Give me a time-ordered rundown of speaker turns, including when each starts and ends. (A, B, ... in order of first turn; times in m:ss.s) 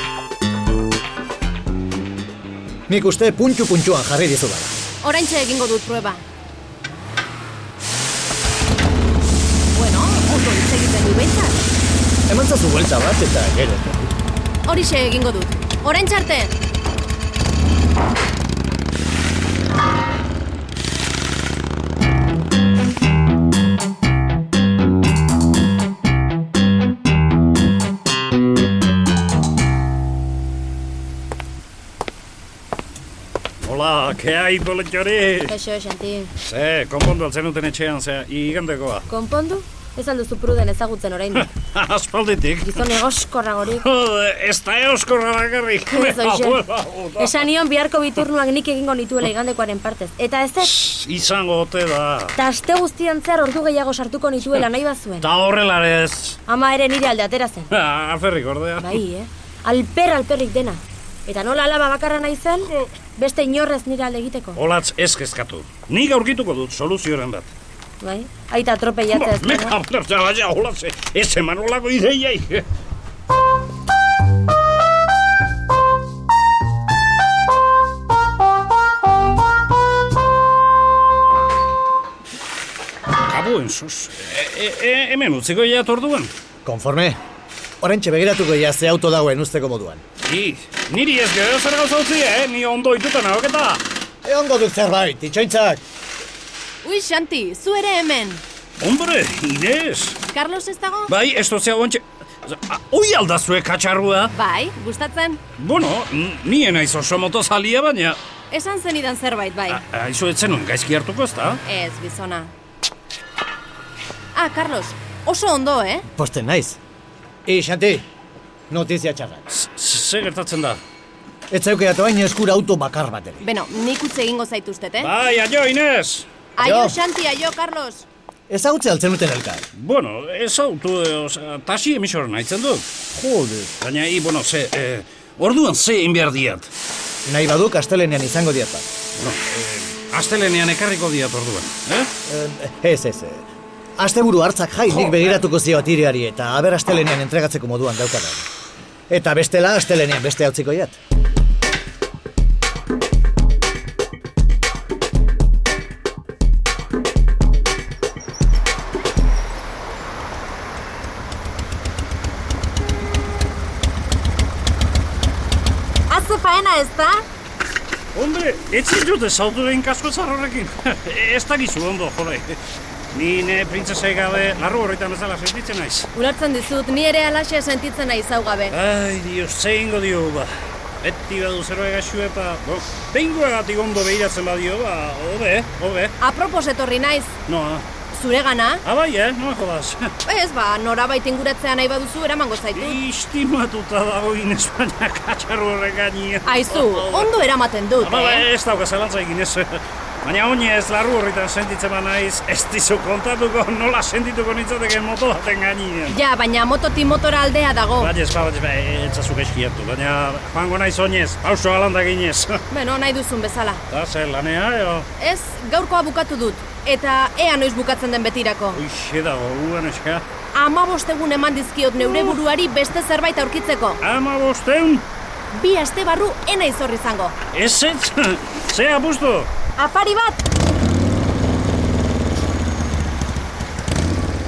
0:02.9-0:04.8 A
0:05.0-0:06.2 B
0:09.7-0:11.7 B
0:12.3-0:14.0 A
0:14.7-0:16.5 B
0:33.6-0:35.5 C
0:35.5-0:36.3 D
0:36.4-0:39.1 C
0:39.1-0:41.5 D
0:41.4-0:42.9 C
0:42.6-0:43.8 D
0:43.7-0:47.4 C
0:45.9-0:46.6 D
0:47.2-0:50.8 D
0:50.6-0:52.4 C
0:52.4-0:55.3 D
0:55.2-0:56.4 C
0:56.5-0:57.7 D
0:57.7-0:59.0 C
0:58.8-1:04.6 D
1:02.7-1:02.9 C
1:04.6-1:07.5 C
1:08.0-1:09.8 D
1:09.1-1:12.7 C
1:23.3-1:26.3 C
1:26.6-1:27.2 A
1:27.8-1:30.0 A
1:30.2-1:33.8 C
1:34.2-1:35.8 A
1:36.8-1:38.4 B
1:38.8-1:40.2 C
1:40.2-1:41.1 B
1:41.1-1:44.3 C
1:44.3-1:45.4 B
1:45.6-1:48.2 C
1:48.5-1:49.8 B
1:49.7-1:51.6 C
1:51.7-1:52.5 B
1:54.4-1:56.1 B
1:56.1-1:56.8 A
1:57.5-1:58.0 A
1:58.7-1:59.4 A
1:59.5-2:00.8 C
2:01.5-2:03.4 A
2:03.4-2:05.1 B
2:05.0-2:06.3 C
2:06.6-2:08.1 B
2:06.6-2:07.0 A
2:08.5-2:09.7 A
2:09.8-2:12.9 C
2:13.1-2:13.7 A
2:13.8-2:16.7 C
2:17.2-2:18.9 A
2:19.2-2:22.1 C
2:22.3-2:23.5 A
2:24.0-2:28.5 A
2:25.0-2:25.3 C
2:29.1-2:31.0 A
2:46.1-2:47.2 B
2:48.1-2:52.6 C
2:53.1-2:56.1 C
2:56.2-2:58.8 B
2:58.7-3:00.5 C
3:01.0-3:06.2 C
3:06.2-3:07.3 B
3:07.5-3:07.9 C
3:08.1-3:08.8 B
3:08.8-3:10.1 C
3:10.2-3:13.0 B
3:12.7-3:26.2 C
3:16.4-3:18.5 B
3:26.1-3:28.1 B
3:28.0-3:32.6 C
3:32.7-3:33.8 B
3:33.9-3:35.1 C
3:35.2-3:38.8 B
3:38.7-3:40.2 C
3:40.6-3:44.0 B
3:44.0-3:45.1 C
3:45.5-3:47.4 B
3:47.5-3:49.5 C
3:49.8-3:50.4 B